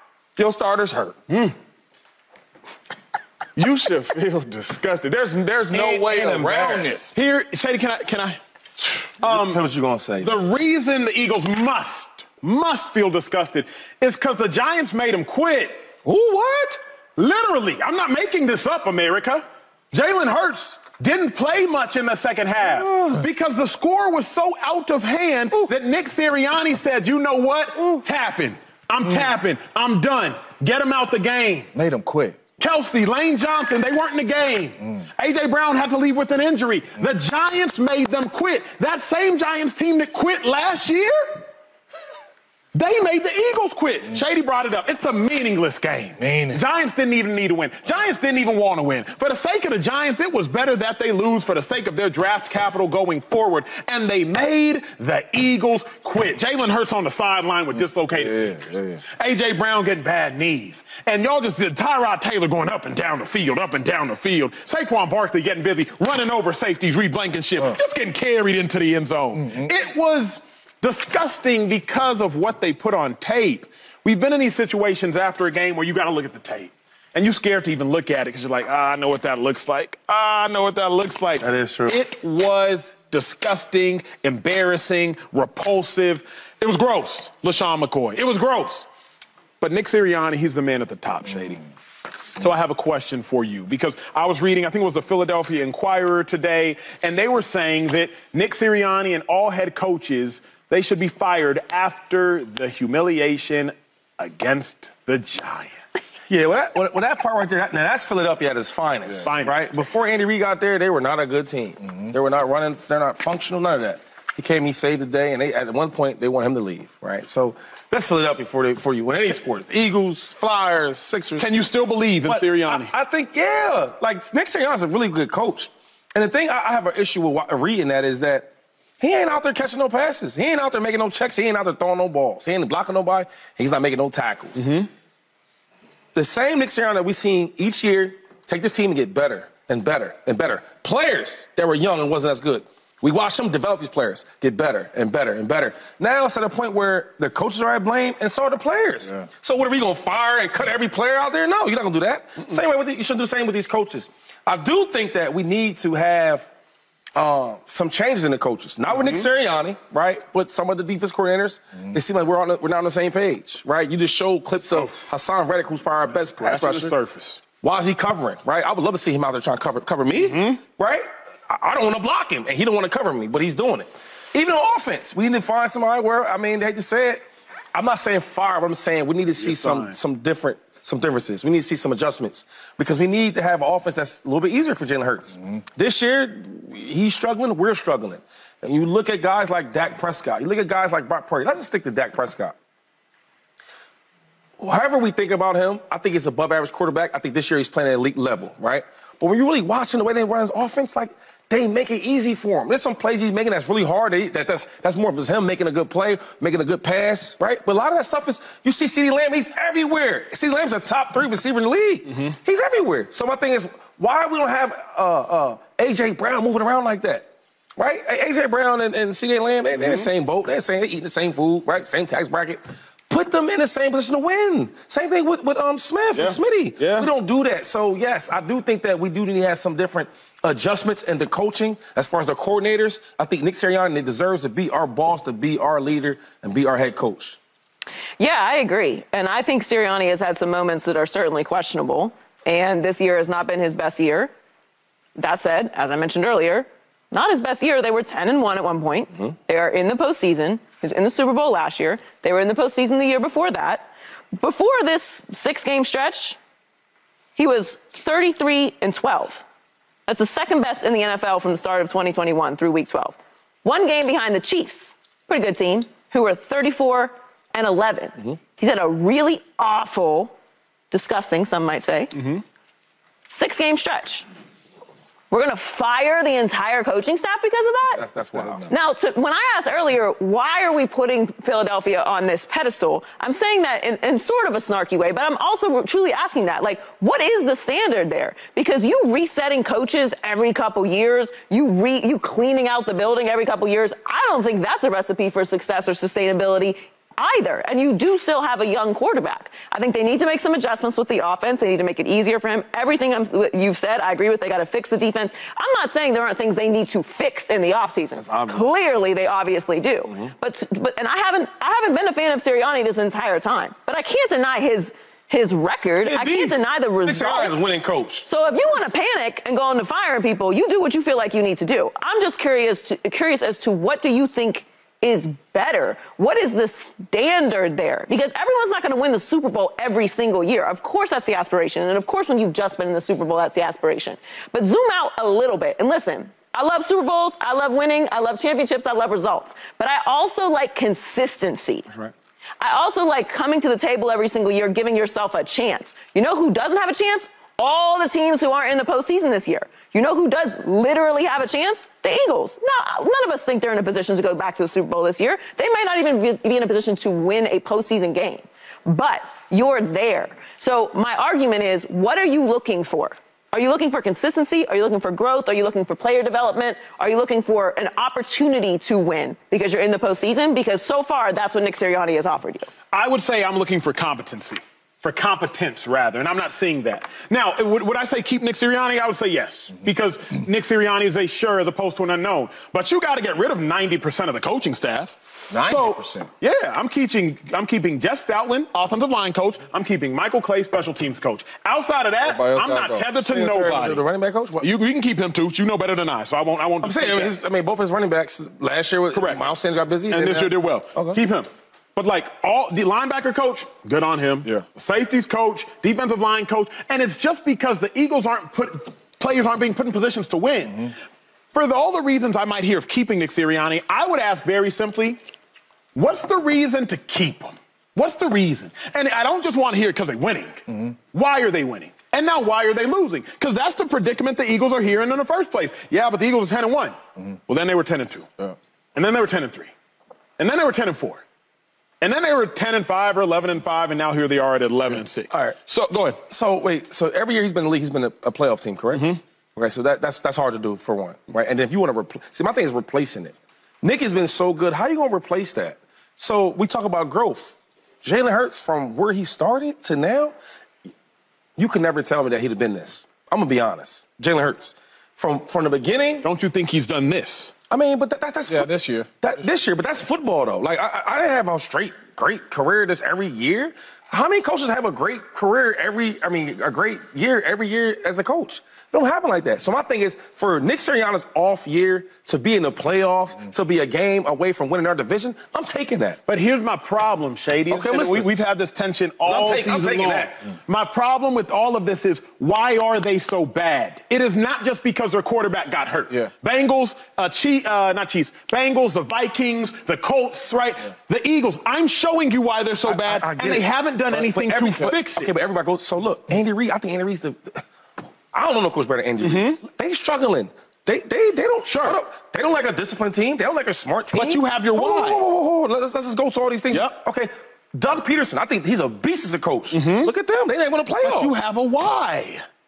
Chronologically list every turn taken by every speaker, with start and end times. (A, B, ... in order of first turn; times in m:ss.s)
0:00.4-0:01.2 A
0:01.3-0:01.5 B
0:03.6-0:07.2 A
0:05.7-0:07.0 C
0:07.0-0:09.6 B
0:09.2-0:10.4 C
0:10.2-0:15.8 B
0:16.0-0:16.8 A
0:17.2-0:31.7 B
0:31.7-0:32.4 A
0:32.6-0:41.4 B
0:42.7-1:28.9 B
0:46.2-0:46.6 A
0:58.1-0:59.0 A
1:09.4-1:09.7 A
1:21.4-1:22.0 C
1:29.6-1:31.6 B
1:32.4-1:46.0 B
1:46.3-2:01.5 C
1:49.2-1:49.7 B
2:01.4-2:02.9 B
2:02.2-2:14.7 C
2:14.6-2:14.9 B
2:16.1-2:36.5 C
2:37.1-2:46.9 C
2:38.9-2:39.2 B
2:46.4-2:47.4 B
2:47.6-2:57.2 C
2:50.1-2:50.6 B
2:57.7-3:12.6 C
2:59.4-3:00.0 B
3:14.6-3:57.4 C
3:39.8-3:40.1 B
3:46.1-3:47.1 B
3:58.2-4:04.3 D
4:05.2-4:16.4 D
4:17.4-4:19.4 D
4:20.1-4:30.3 D
4:30.9-4:32.2 D
4:32.2-4:32.4 B
4:33.3-4:34.2 D
4:35.3-4:38.0 D
4:37.9-4:38.7 C
4:38.7-5:17.6 D
5:08.2-5:08.7 C
5:16.0-5:18.3 C
5:18.2-5:41.9 D
5:42.6-6:12.7 D
6:12.9-6:34.0 B
6:25.5-6:26.3 A
6:32.2-6:33.2 A
6:33.3-6:34.7 C
6:34.6-6:37.3 B
6:36.8-6:41.2 C
6:39.1-6:39.5 B
6:40.1-6:50.9 B
6:51.5-6:55.2 B
6:55.9-7:08.4 B
7:08.9-7:09.7 B
7:10.4-7:11.2 B
7:12.0-7:16.2 B
7:15.3-7:15.6 C
7:16.3-7:30.3 C
7:18.9-7:19.2 B
7:31.6-7:36.2 C
7:36.2-7:37.5 B
7:37.7-7:38.7 C
7:38.5-7:39.1 A
7:39.2-7:56.2 C
7:56.3-8:15.4 B
7:57.7-7:58.3 C
7:59.2-8:00.3 C
8:12.8-8:17.6 C
8:18.3-8:31.4 C
8:19.2-8:19.6 B
8:21.6-8:22.0 B
8:24.1-8:25.2 B
8:26.7-8:27.0 B
8:29.7-8:30.1 B
8:31.0-8:32.4 B